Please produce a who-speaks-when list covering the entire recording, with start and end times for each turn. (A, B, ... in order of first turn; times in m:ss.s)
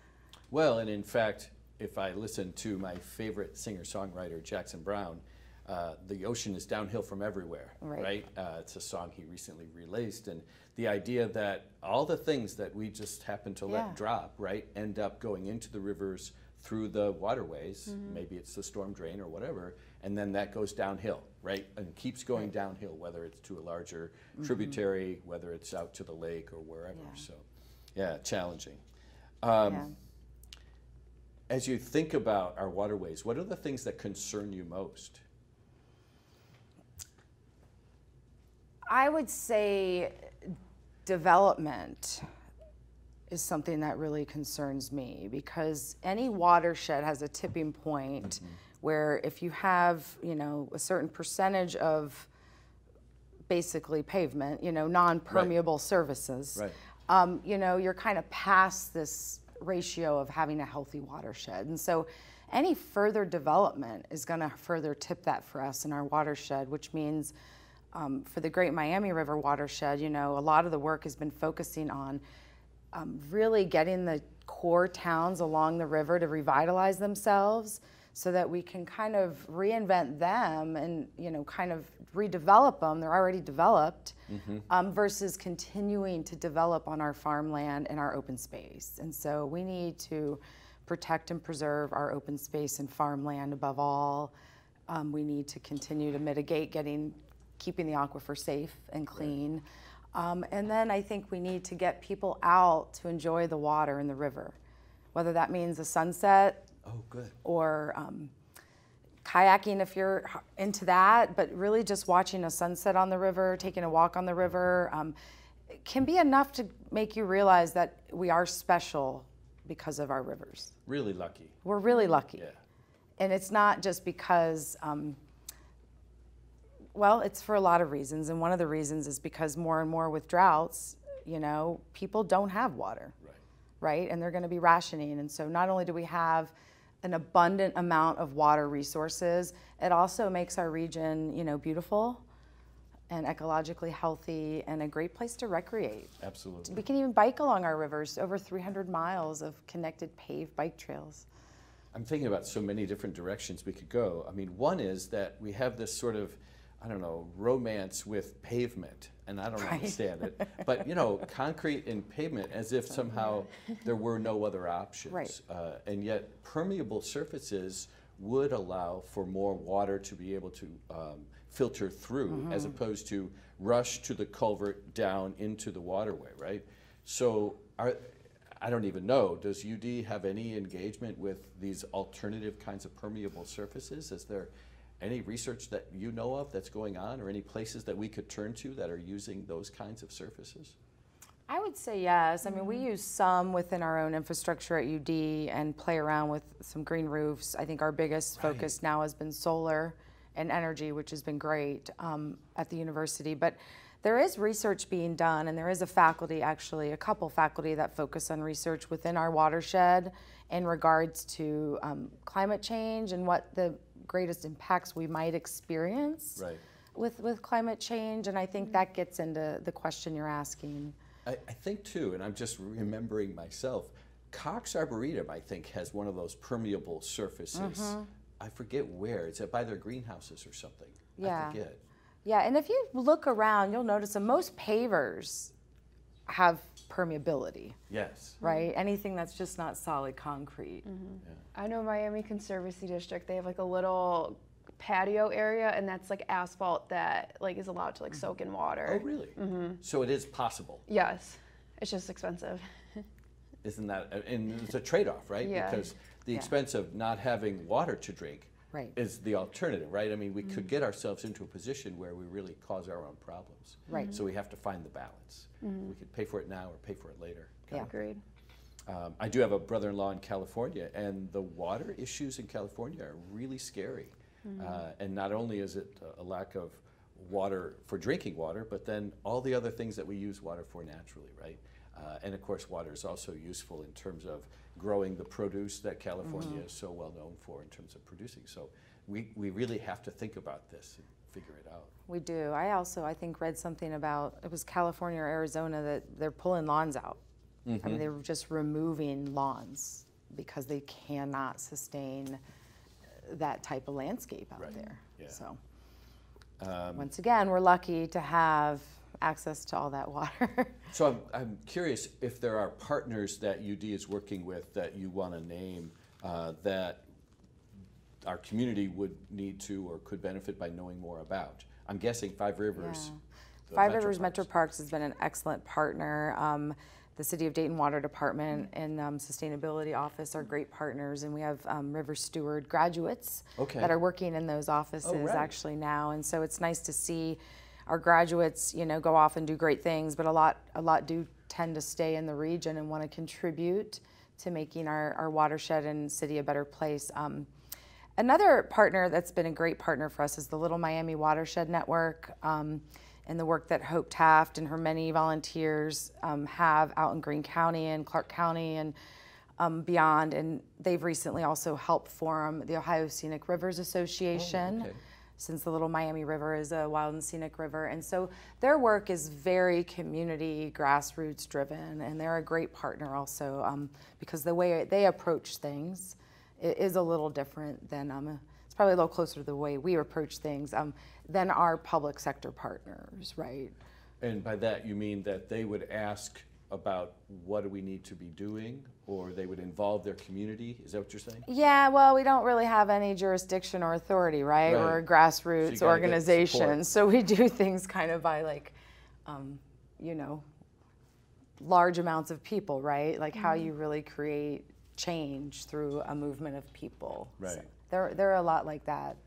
0:00.5-0:28.8 A
0:07.8-0:08.1 B
0:13.7-0:14.0 B
0:29.4-0:29.9 A
0:29.7-0:29.9 B
0:31.5-0:35.2 A
0:38.9-0:42.3 B
0:43.3-0:52.3 B
0:53.5-1:07.3 B
1:07.9-1:12.2 B
1:12.9-1:34.3 B
1:24.3-1:24.6 A
1:34.9-1:39.6 B
1:40.1-1:44.6 B
1:45.1-1:46.7 B
1:46.8-1:47.4 A
1:47.4-1:48.3 B
1:49.2-1:55.1 B
1:55.7-2:00.7 B
2:00.8-2:01.6 A
2:01.6-2:02.4 B
2:03.2-2:05.2 B
2:06.9-2:13.1 B
2:13.8-2:16.5 B
2:17.0-2:22.2 B
2:23.1-2:31.2 B
2:26.2-2:26.8 A
2:31.9-3:10.7 A
2:39.6-2:40.6 B
2:45.1-2:45.4 B
2:52.3-2:52.7 B
3:11.5-3:36.4 B
3:12.5-3:12.8 C
3:18.4-3:18.7 A
3:36.9-3:41.0 B
3:41.2-3:51.8 A
3:47.5-3:48.1 B
3:51.2-3:51.6 B
3:52.2-3:55.5 B
3:56.3-3:57.8 B
3:57.9-3:58.4 A
3:58.4-3:58.7 C
3:58.4-4:00.8 B
4:00.8-4:09.8 C
4:08.8-4:10.8 A
4:10.9-4:13.0 C
4:13.6-4:27.9 A
4:15.4-4:15.9 C
4:23.9-4:24.2 B
4:23.9-4:24.2 C
4:25.6-4:25.9 C
4:27.7-4:28.2 C
4:28.8-4:51.9 A
4:34.4-4:34.8 C
4:46.2-4:46.6 B
4:52.1-4:57.2 B
4:57.6-4:58.0 A
4:57.8-5:02.4 B
5:03.2-5:05.6 B
5:04.6-5:05.4 A
5:06.6-5:07.1 A
5:06.9-5:10.9 B
5:10.9-5:17.0 A
5:18.2-5:23.1 A
5:22.8-5:23.2 B
5:23.7-5:24.5 A
5:23.7-5:47.5 B
5:33.6-5:33.9 A
5:35.0-5:35.5 A
5:48.2-5:58.9 B
5:59.6-6:23.7 B
6:04.3-6:05.0 A
6:24.2-6:31.4 A
6:31.4-6:38.7 B
6:34.6-6:35.0 A
6:35.6-6:36.8 A
6:39.2-6:40.4 B
6:41.6-6:49.2 B
6:43.4-6:43.6 C
6:47.4-6:47.7 A